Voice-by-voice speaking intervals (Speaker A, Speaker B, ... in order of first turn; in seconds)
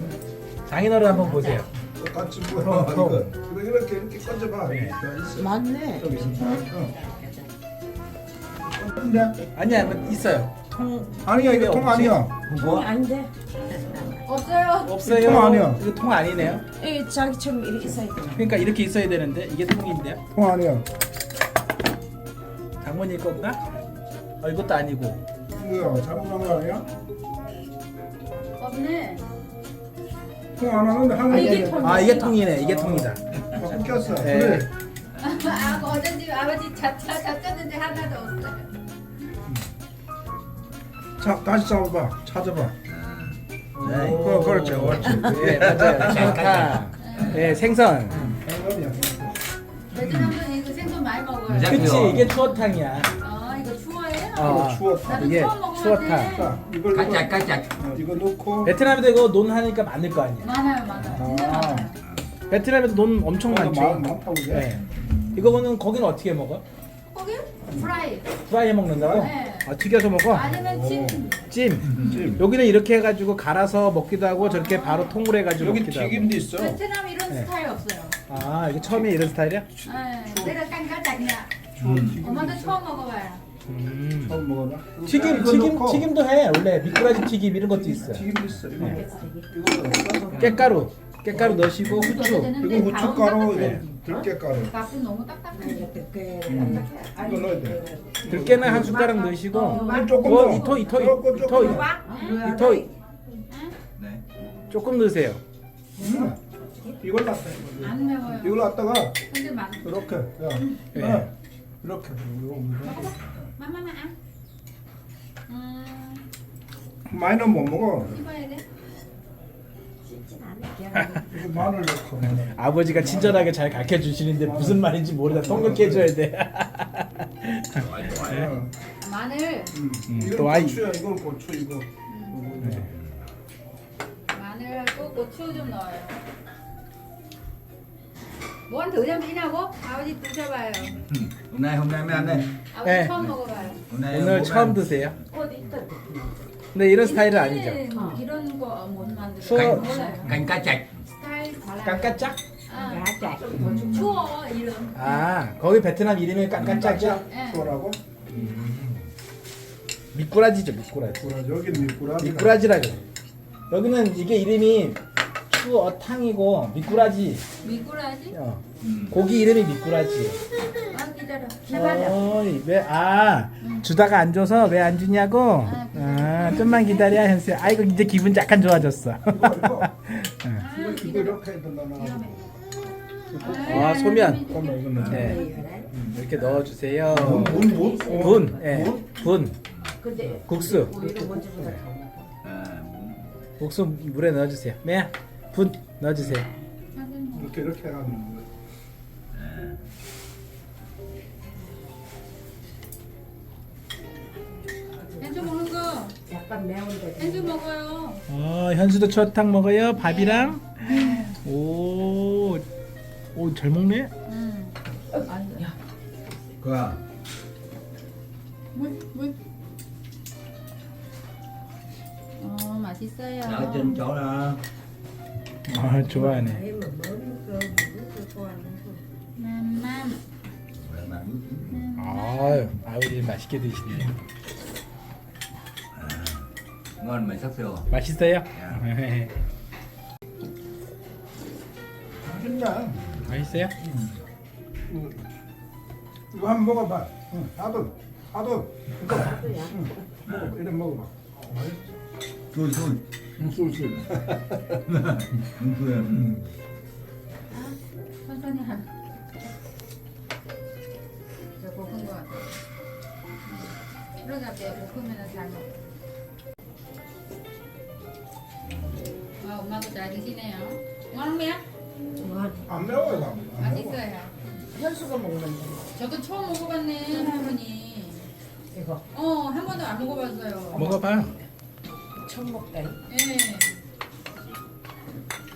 Speaker A: 0.7-1.7, 2.6-3.3, 4.7-5.0, 9.5-12.2, 14.8-16.6, 18.3-20.2, 22.8-23.6, 24.4-25.2, 31.8-33.2, 34.1-34.7, 43.8-48.3, 51.6-53.1, 54.3-56.5, 58.6-60.5, 61.1-61.9, 62.5-66.6, 68.5-70.5, 71.5-76.3, 78.3-79.7, 81.8-82.2, 83.7-84.4, 85.0-89.0, 90.3-92.6, 96.5-96.8, 98.2-102.8, 104.7-105.4, 110.9-111.3, 120.9-128.5, 130.1-130.8, 132.6-132.9, 142.3-143.2, 144.1-145.2, 146.7-147.8, 149.4-149.9, 151.8-152.4, 154.9-157.2, 158.3-159.0, 160.1-163.0, 163.7-167.4, 168.3-170.4, 171.7-180.7, 183.6-184.5, 185.0-189.5, 190.4-190.9, 193.6-196.5, 208.3-212.6, 213.3-214.1, 225.7-226.6, 231.9-234.1, 237.9-239.3, 243.2-243.7, 280.7-281.3
Speaker B: 1.3-1.6, 5.3-6.2, 7.0-7.5, 12.5-14.1, 16.8-18.4, 31.3-31.8, 88.8-90.5, 93.6-94.0, 95.5-100.2, 101.4-102.9, 106.0-106.3, 120.0-121.2, 145.3-146.4, 147.9-148.2, 149.9-150.3, 152.7-153.7, 185.1-185.9, 187.3-188.8, 190.0-192.3, 206.3-207.6, 226.1-229.0, 249.2-249.9, 272.2-272.6, 274.7-275.9, 278.7-279.0, 280.7-281.0, 282.2-283.0
Speaker C: 1.8-6.9, 8.7-9.4, 11.2-12.6, 15.0-15.8, 20.3-20.9, 25.5-26.9, 30.6-34.7, 41.2-42.8, 43.7-46.7, 48.1-49.4, 51.7-52.3, 54.4-55.4, 56.2-58.8, 63.5-65.0, 68.8-69.3, 70.5-71.3, 71.9-72.4, 75.6-76.8, 79.7-80.6, 81.7-82.8, 84.3-86.1, 87.7-94.7, 96.5-101.9, 106.0-106.4, 107.0-109.2, 109.8-113.5, 117.1-118.2, 121.2-123.6, 124.4-126.1, 128.1-128.7, 129.7-132.8, 153.5-154.0, 156.6-158.0, 161.2-162.6, 179.3-179.9, 180.7-182.4, 183.3-186.1, 187.1-189.0, 191.0-191.5, 197.3-198.5, 242.2-243.0, 244.9-245.2, 246.3-251.9, 253.4-254.8, 256.1-256.4, 272.6-274.0
Speaker D: 12.6-12.8, 42.9-43.4, 45.4-47.4, 51.5-52.3, 56.9-57.7, 104.0-104.2, 127.8-128.4, 141.1-142.5, 143.9-144.8, 149.5-150.9, 168.8-169.1, 192.4-193.3, 199.3-199.8, 216.6-217.0, 223.4-224.6, 230.8-231.8, 236.0-236.4, 237.0-237.9, 238.5-238.8, 252.5-253.0, 254.8-256.3
Speaker E: 14.2-15.0, 28.6-29.2, 31.3-32.4, 35.2-38.7, 47.0-47.4, 49.9-52.0, 53.2-56.5, 60.4-62.0, 67.1-68.3, 69.1-69.7, 70.3-71.4, 74.3-75.2, 76.5-78.2, 79.8-81.5, 82.2-83.4, 91.9-96.0, 99.5-102.5, 103.5-103.8, 107.8-108.6, 109.3-110.0, 110.5-110.8, 112.8-114.1, 115.5-116.2, 118.0-118.6, 129.0-129.7, 132.1-132.4, 134.3-136.2, 138.7-141.0, 142.7-143.8, 146.9-150.3, 151.1-155.2, 157.3-157.8, 167.6-168.3, 170.9-172.2, 175.6-177.2, 180.6-181.4, 181.9-182.5, 183.3-185.4, 196.9-197.6, 205.2-206.2, 207.2-208.2, 210.0-211.3, 214.3-214.7, 215.2-215.7, 218.7-219.3, 222.4-224.0, 229.4-230.2, 231.7-232.7, 257.5-258.9, 261.6-262.4, 264.2-265.7, 269.4-271.6, 273.6-274.3, 276.0-278.3, 279.1-281.0, 283.1-283.8